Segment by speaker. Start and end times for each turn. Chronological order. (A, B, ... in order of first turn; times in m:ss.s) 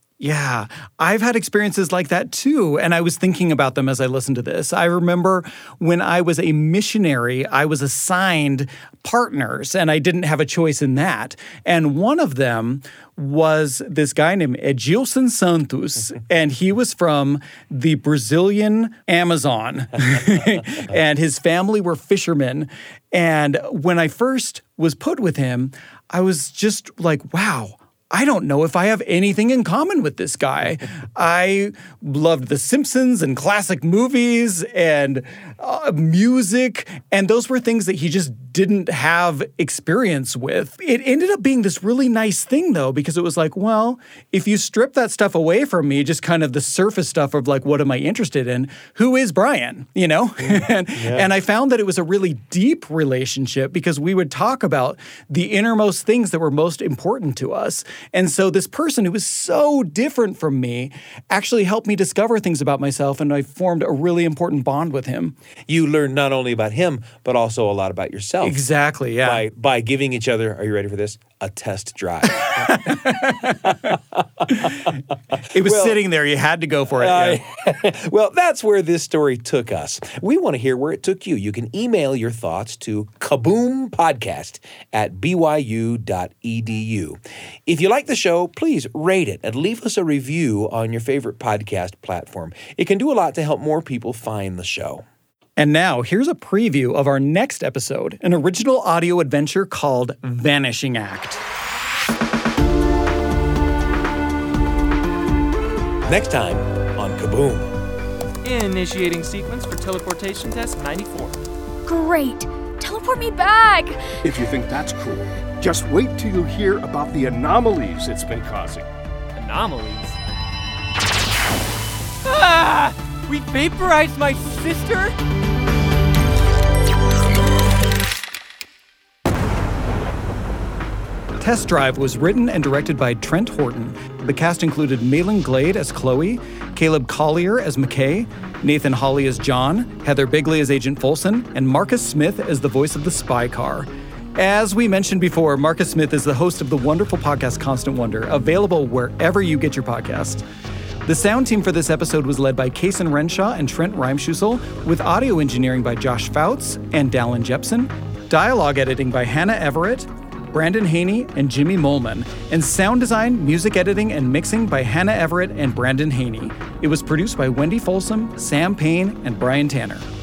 0:00.2-1:05.3 A
0:51.0-0:51.3 B
1:05.7-1:08.6 B
1:08.4-1:09.4 A
1:09.2-1:15.0 B
1:12.5-1:14.0 A
1:14.5-1:14.8 A
1:15.5-1:17.4 A
1:15.6-1:16.0 B
1:17.0-1:35.0 B
1:35.6-1:41.4 A
1:46.0-1:47.8 B
1:48.4-1:51.4 C
1:51.9-1:54.0 D
1:54.2-1:58.9 E
1:59.4-2:00.2 C
2:02.2-2:05.2 C
2:11.4-2:30.4 A
2:31.0-2:50.1 A